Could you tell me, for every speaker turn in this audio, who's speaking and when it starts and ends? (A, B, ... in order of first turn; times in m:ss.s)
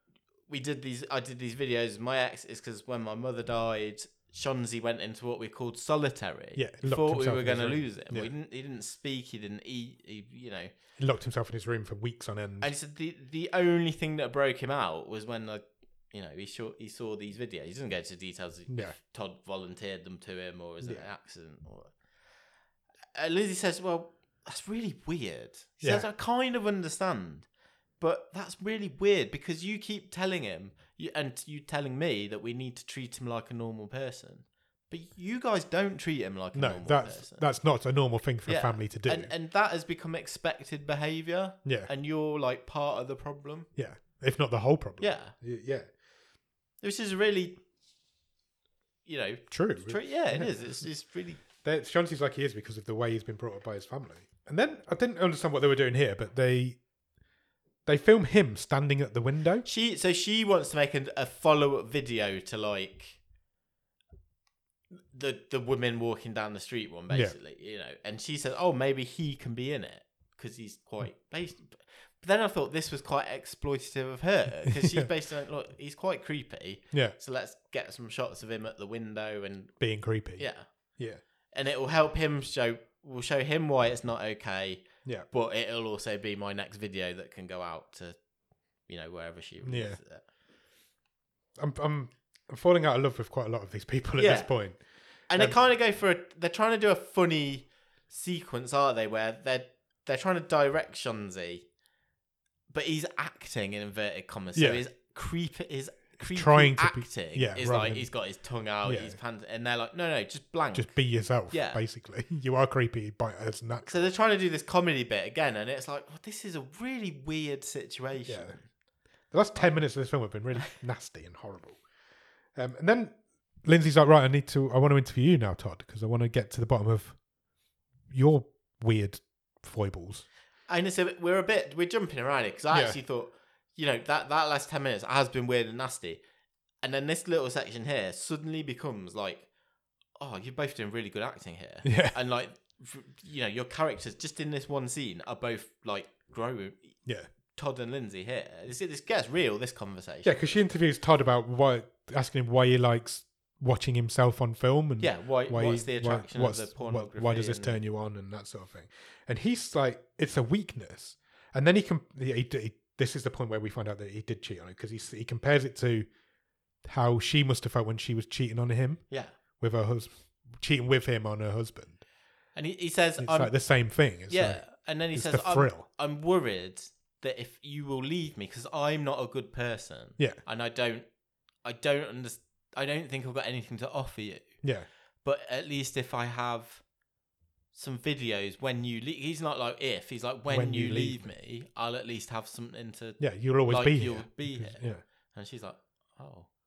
0:00.5-0:10.7 A
0:06.6-0:08.3 B
0:11.0-0:12.7 B
0:12.6-0:21.9 A
0:18.7-0:19.0 B
0:23.2-0:27.5 A
0:25.8-0:26.1 B
0:28.0-0:37.5 A
0:36.5-0:39.3 B
0:38.5-0:43.7 A
0:43.8-0:45.9 B
0:45.0-0:45.3 A
0:46.8-0:47.6 A
0:49.1-0:51.4 A
0:49.5-0:50.8 B
0:51.6-0:56.8 B
0:57.9-0:59.7 B
0:59.6-1:03.2 A
1:05.1-1:19.8 A
1:07.1-1:07.4 B
1:14.7-1:15.1 B
1:19.8-1:20.5 B
1:20.4-1:20.6 A
1:21.5-1:28.2 A
1:28.9-1:30.2 A
1:29.6-1:30.0 B
1:31.6-1:34.8 B
1:34.2-1:34.5 A
1:35.3-1:41.6 A
1:42.7-1:50.9 A
1:44.6-1:44.8 B
1:46.2-1:48.1 B
1:48.8-1:49.2 B
1:50.7-1:54.1 B
1:51.5-1:51.8 A
1:53.9-1:58.6 A
1:58.3-1:58.6 B
1:59.3-2:01.8 B
2:02.6-2:07.2 B
2:08.1-2:10.3 B
2:10.7-2:16.2 A
2:12.7-2:13.0 B
2:16.8-2:19.5 A
2:20.2-2:27.0 A
2:21.8-2:22.2 B
2:27.5-2:30.6 A
2:30.2-2:46.1 B
2:35.0-2:37.8 A
2:46.8-2:49.0 B
2:49.6-2:52.0 B
2:52.6-2:53.5 A
2:53.2-2:55.9 B
2:54.3-3:01.1 A
3:01.6-3:04.6 A
3:05.2-3:06.8 A
3:07.7-3:16.5 A
3:10.5-3:11.3 B
3:13.2-3:15.0 B